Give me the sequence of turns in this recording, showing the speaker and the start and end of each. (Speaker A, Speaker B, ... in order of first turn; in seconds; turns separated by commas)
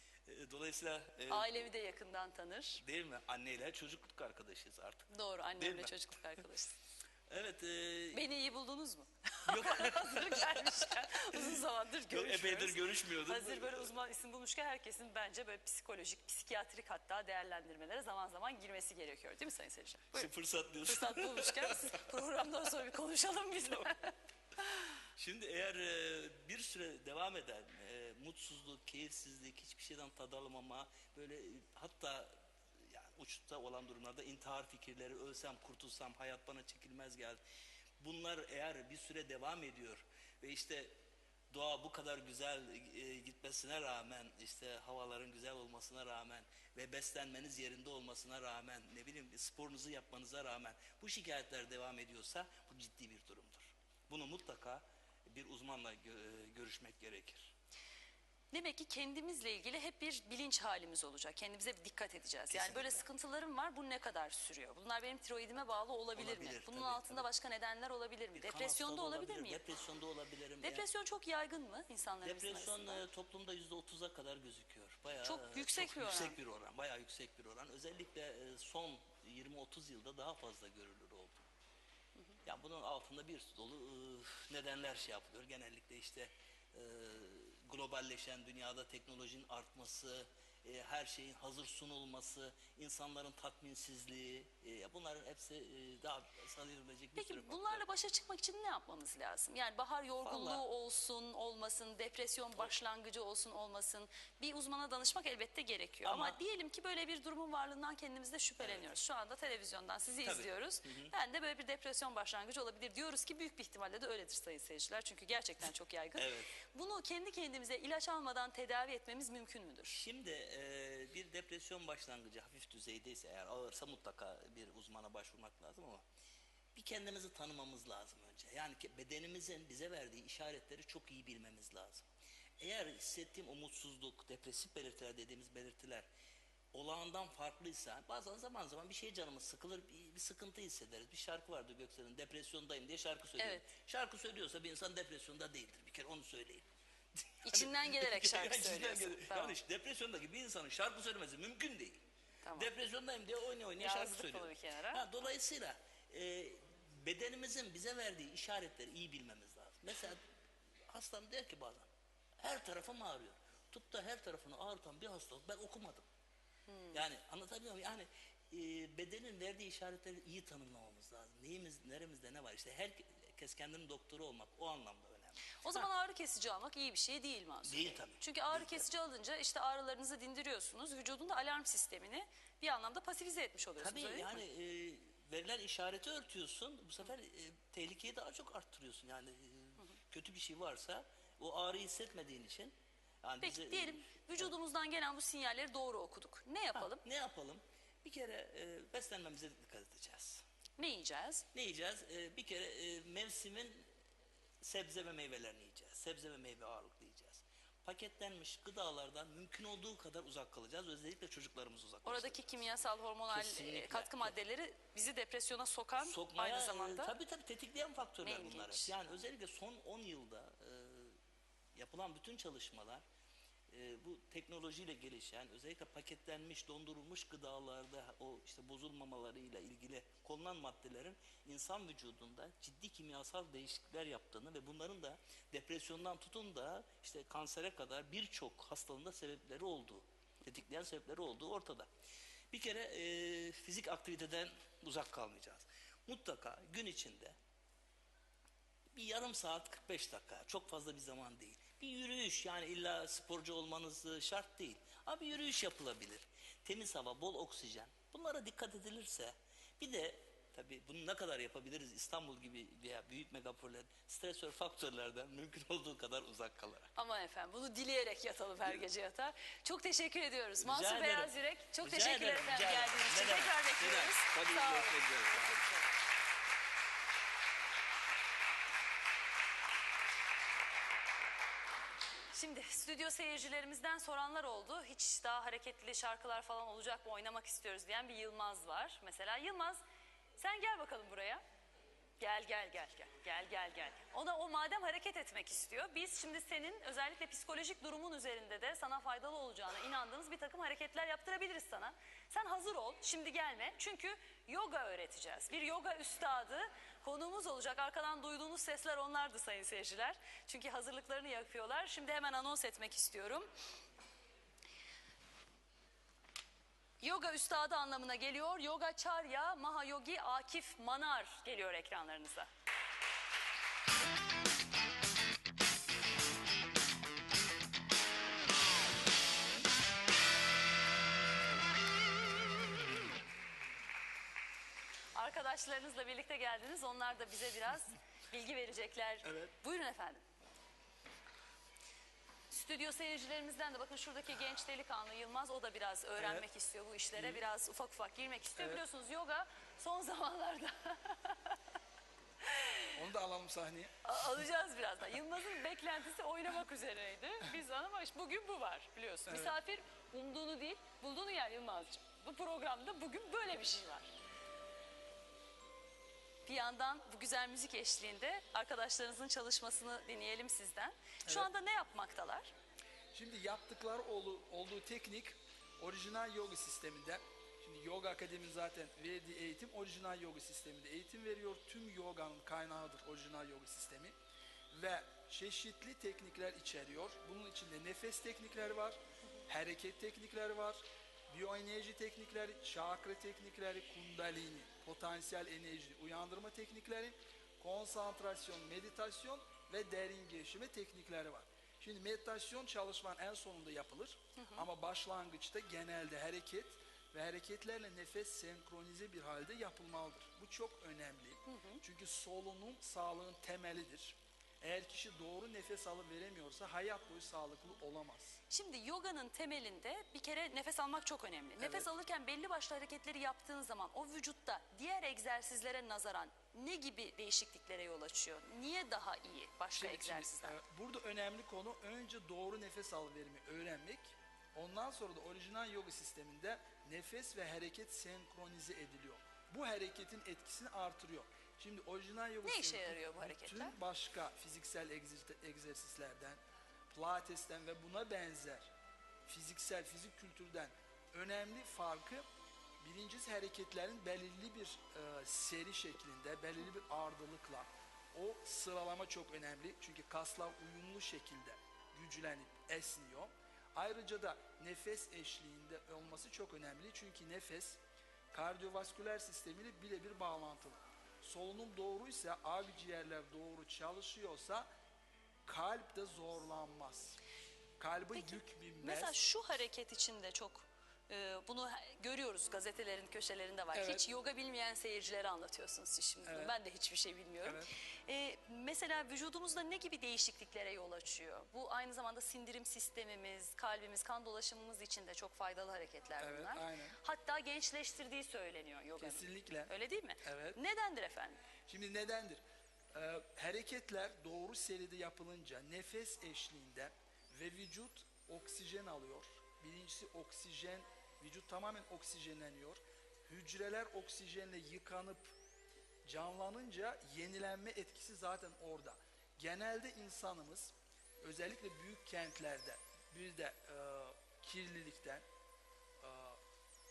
Speaker A: 0.2-1.6, Speaker B: 1.3-2.8, Speaker A: 2.8-6.0, Speaker B: 5.1-6.8, Speaker A: 7.3-8.2, Speaker B: 8.1-20.3, Speaker A: 9.4-13.9, Speaker A: 20.1-22.1, Speaker B: 20.9-24.1, Speaker A: 25.1-37.4, Speaker A: 38.0-40.9, Speaker A: 41.5-57.5, Speaker B: 58.5-69.6, Speaker A: 62.5-63.0, Speaker A: 66.1-67.3, Speaker A: 68.3-70.8, Speaker B: 70.6-73.0, Speaker A: 72.2-81.4, Speaker B: 75.2-76.4, Speaker A: 82.4-97.8, Speaker B: 97.1-120.0, Speaker A: 100.2-100.6, Speaker A: 106.0-106.4, Speaker A: 108.6-108.9, Speaker A: 110.2-111.1, Speaker A: 116.2-116.5, Speaker A: 119.9-126.0, Speaker A: 126.7-132.1, Speaker A: 132.6-136.1, Speaker A: 136.7-146.6, Speaker B: 143.4-143.7, Speaker A: 147.2-152.0, Speaker B: 147.4-149.6, Speaker B: 152.4-152.7, Speaker A: 152.5-160.2, Speaker B: 153.8-155.1, Speaker A: 160.9-161.9, Speaker A: 162.4-166.1, Speaker B: 166.7-167.0, Speaker A: 166.9-175.6, Speaker B: 175.6-184.4, Speaker A: 177.6-178.8, Speaker A: 183.8-194.6, Speaker B: 193.4-197.0, Speaker A: 196.7-200.4, Speaker B: 200.8-201.4, Speaker A: 201.5-203.9, Speaker A: 204.6-212.7, Speaker B: 212.0-217.2, Speaker A: 213.3-214.4, Speaker A: 216.0-221.2, Speaker B: 218.2-219.0, Speaker A: 221.7-223.0, Speaker A: 223.7-241.9, Speaker A: 242.5-247.3, Speaker A: 248.9-266.9, Speaker B: 266.9-275.8, Speaker A: 270.6-275.6, Speaker B: 282.3-289.8, Speaker B: 290.4-291.4, Speaker B: 292.2-313.5, Speaker B: 317.0-322.5, Speaker B: 335.1-340.2, Speaker B: 342.5-351.6, Speaker C: 346.2-346.4, Speaker C: 347.1-347.4, Speaker C: 348.6-348.8, Speaker B: 352.4-353.0, Speaker C: 352.9-353.9, Speaker B: 354.0-364.1, Speaker C: 359.3-359.5, Speaker B: 366.4-372.5, Speaker C: 373.1-384.1, Speaker C: 384.7-418.4, Speaker B: 404.4-404.7, Speaker B: 411.5-411.8, Speaker B: 418.5-430.6, Speaker C: 421.6-421.9, Speaker C: 429.7-446.4, Speaker B: 442.4-443.8, Speaker C: 446.9-448.7, Speaker C: 449.3-452.2, Speaker C: 452.8-467.8, Speaker C: 468.3-474.7, Speaker C: 475.4-477.2, Speaker C: 477.8-479.1, Speaker B: 478.1-501.4, Speaker C: 483.7-484.0, Speaker C: 486.2-486.6, Speaker C: 487.4-487.7, Speaker C: 496.2-497.0, Speaker C: 499.0-499.7, Speaker C: 500.2-500.6, Speaker C: 501.7-502.4, Speaker C: 502.9-515.4, Speaker C: 516.0-525.2, Speaker C: 526.0-526.4